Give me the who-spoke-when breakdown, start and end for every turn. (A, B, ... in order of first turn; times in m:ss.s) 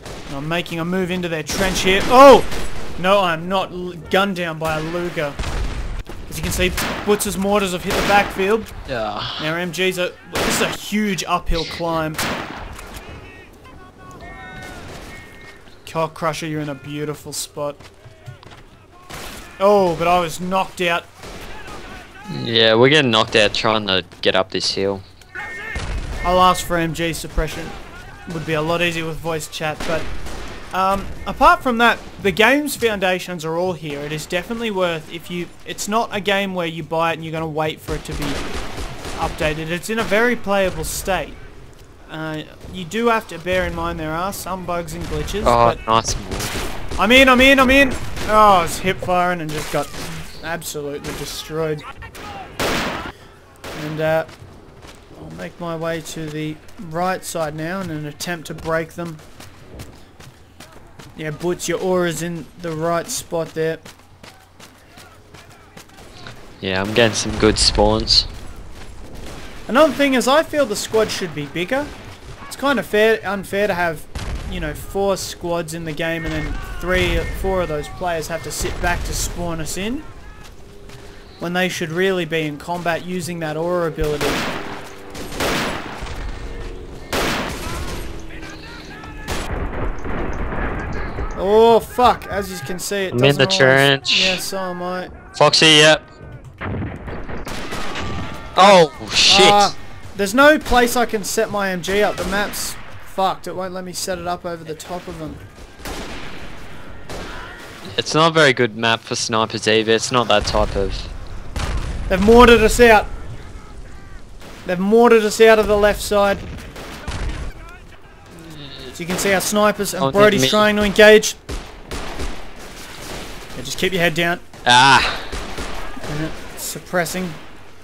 0:00.3-0:05.4 A
0:06.3-0:08.7 A
0:08.9-0:09.5 B
0:09.4-0:12.2 A
0:15.9-0:17.8 A
0:19.6-0:21.1 A
0:22.3-0:25.0 B
0:26.2-0:27.7 A
0:28.3-0:30.1 A
0:30.7-0:38.4 A
0:39.2-0:41.4 A
0:42.1-0:45.8 A
0:45.4-0:46.6 B
0:47.0-0:51.8 A
0:53.8-0:54.4 A
0:55.1-0:59.2 A
1:01.2-1:03.8 A
1:06.6-1:08.3 B
1:09.7-1:11.9 A
1:12.5-1:20.1 A
1:21.4-1:24.4 A
1:31.4-1:35.1 A
1:33.1-1:34.4 B
1:35.4-1:36.0 B
1:38.6-1:39.7 B
1:38.6-1:45.4 A
1:47.9-1:51.1 B
1:52.1-1:53.1 A
1:54.7-1:56.4 A
1:58.4-1:58.9 B
1:59.0-2:01.4 A
2:00.0-2:00.7 B
2:03.6-2:04.4 A
2:04.6-2:05.4 B
2:06.1-2:07.4 A